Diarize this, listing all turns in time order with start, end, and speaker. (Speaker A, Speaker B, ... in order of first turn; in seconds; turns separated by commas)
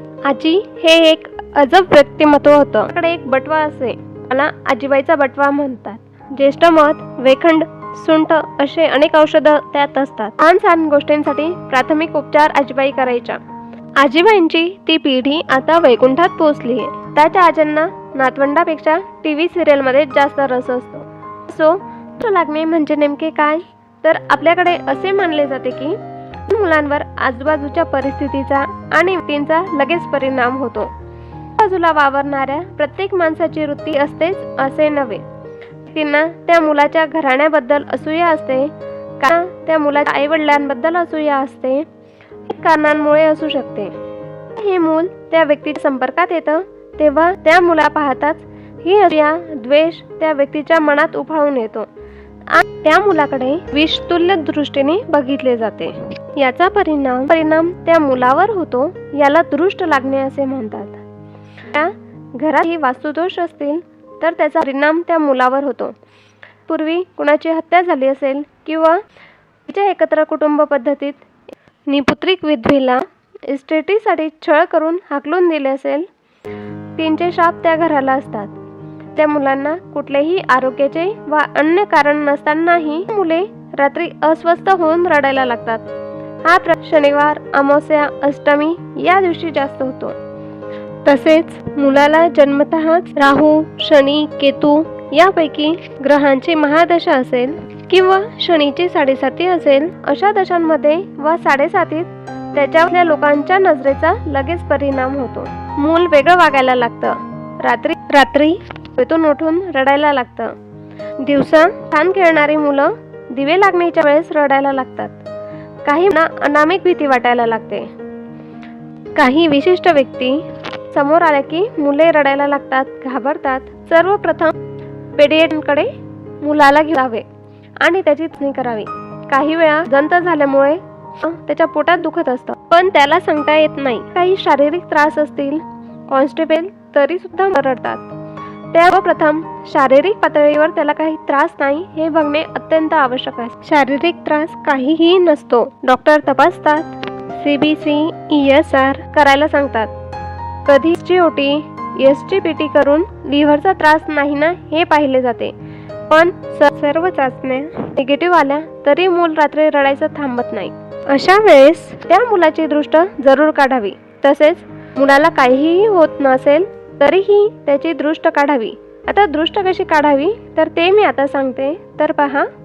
Speaker A: 0.2-13.4, Speaker A: 14.0-30.9, Speaker A: 31.6-35.2, Speaker A: 35.9-41.9, Speaker A: 42.5-43.9, Speaker A: 44.6-51.9, Speaker A: 52.5-61.0, Speaker A: 61.7-66.0, Speaker A: 66.7-69.0, Speaker A: 69.7-71.2, Speaker A: 71.9-76.1, Speaker A: 77.0-78.5, Speaker A: 79.2-85.9, Speaker A: 86.4-90.2, Speaker A: 91.0-110.5, Speaker A: 111.2-115.2, Speaker A: 115.8-117.9, Speaker A: 119.2-124.5, Speaker A: 125.2-127.2, Speaker A: 127.8-138.1, Speaker A: 138.7-149.9, Speaker A: 150.7-155.6, Speaker A: 156.1-172.5